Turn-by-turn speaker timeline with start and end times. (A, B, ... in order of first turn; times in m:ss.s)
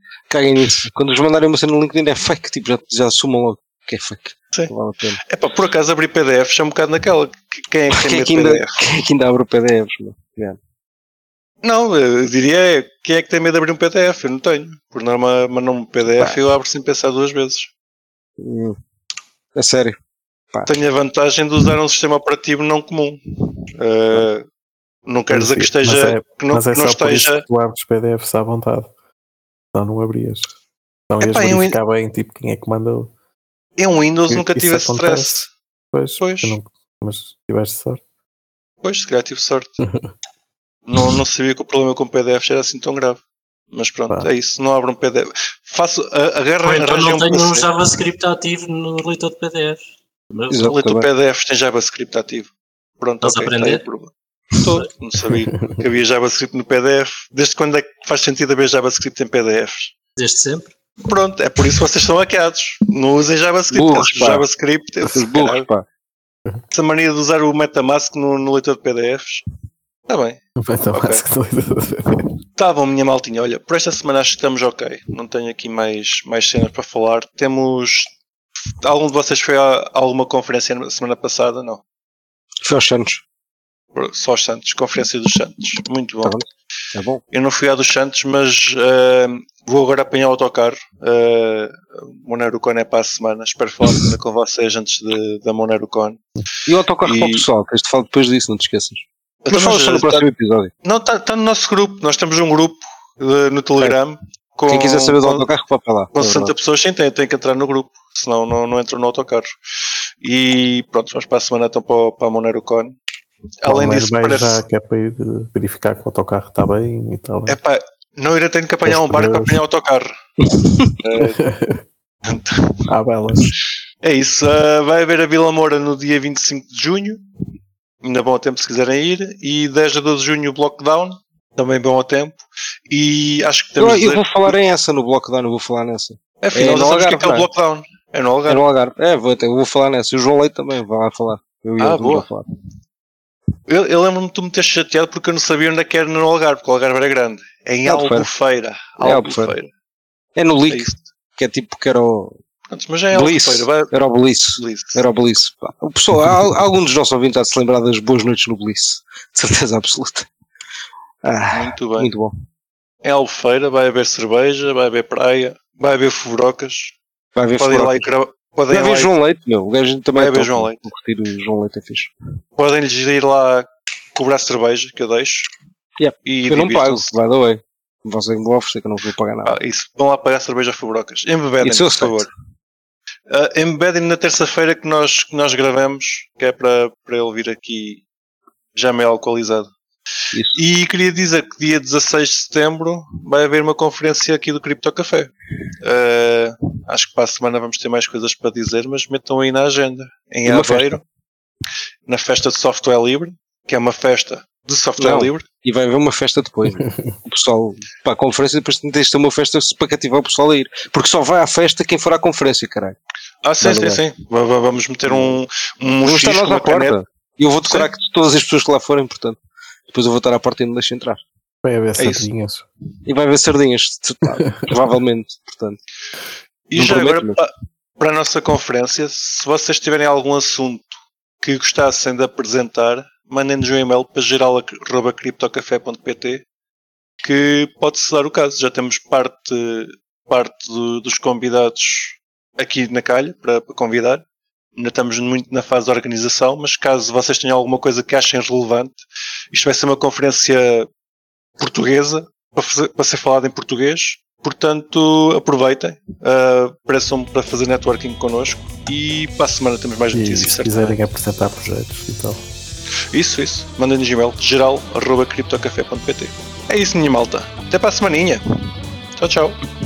0:00.3-0:05.2 A
0:05.2-0:08.8 B
0:07.9-0:10.6 A
0:11.6-0:17.7 B
0:18.4-0:18.8 A
0:19.6-0:20.0 A
0:20.7-0:23.2 B
0:23.7-0:24.4 B
0:25.0-0:27.4 B
0:25.3-0:28.9 C
0:29.7-0:30.5 C
0:31.1-0:33.1 C
0:31.2-0:31.8 B
0:33.8-0:35.5 B
0:34.3-0:38.0 C
0:36.2-0:36.6 B
0:38.8-0:39.8 B
0:39.8-0:40.1 C
0:40.9-0:43.2 B
0:43.7-0:47.7 B
0:46.6-0:50.7 D
0:50.5-0:51.1 A
0:50.6-0:59.9 B
0:53.2-0:53.8 D
1:00.2-1:00.7 D
1:01.0-1:05.7 B
1:03.7-1:04.4 A
1:05.0-1:05.9 A
1:06.7-1:09.4 B
1:10.1-1:10.4 B
1:10.6-1:12.3 C
1:10.9-1:11.2 B
1:12.6-1:18.1 B
1:18.8-1:21.8 B
1:22.6-1:23.2 A
1:23.9-1:26.4 B
1:26.2-1:27.2 A
1:27.3-1:36.2 B
1:36.7-1:40.7 A
1:37.0-1:37.4 B
1:39.4-1:40.3 B
1:40.8-1:45.5 B
1:44.7-1:46.5 A
1:46.1-1:49.5 B
1:50.2-1:52.9 B
1:53.6-1:54.6 B
1:53.6-1:57.6 C
1:57.5-2:00.1 B
1:58.8-1:59.6 C
2:01.0-2:01.4 B
2:01.1-2:01.8 C
2:02.2-2:02.8 B
2:02.9-2:03.5 C
2:04.0-2:07.2 B
2:08.0-2:14.6 B
2:13.8-2:17.5 A
2:16.4-2:18.6 B
2:18.5-2:22.4 A
2:21.8-2:22.3 B
2:23.7-2:29.7 B
2:27.9-2:28.3 A
2:29.0-2:29.6 A
2:30.4-2:32.4 A
2:30.7-2:31.0 B
2:32.7-2:33.9 B
2:33.1-2:40.3 A
2:34.6-2:35.0 B
2:41.2-2:42.3 A
2:41.5-2:42.1 B
2:43.0-2:47.0 B
2:47.4-2:48.1 A
2:47.6-2:49.1 B
2:48.7-2:52.1 A
2:50.1-2:50.9 B
2:52.6-2:55.5 B
2:56.0-2:59.6 A
2:56.2-2:57.1 B
2:59.4-3:02.3 B
3:01.6-3:02.3 A
3:03.3-3:08.0 B
3:08.7-3:09.7 B
3:10.3-3:10.6 A
3:10.5-3:21.0 B
3:20.4-3:21.0 A
3:22.0-3:25.4 B
3:25.0-3:33.0 A
3:33.4-3:37.0 B
3:33.6-3:34.0 A
3:35.1-3:35.3 A
3:36.0-3:39.4 A
3:37.6-3:37.9 B
3:39.9-3:41.2 A
3:41.6-3:42.6 C
3:42.0-3:42.3 B
3:43.0-3:45.8 A
3:46.7-3:56.4 B
3:46.7-3:47.4 A
3:57.2-4:04.2 B
4:04.8-4:10.9 B
4:11.6-4:21.0 B
4:20.1-4:22.4 C
4:23.1-4:28.4 B
4:29.2-4:29.6 B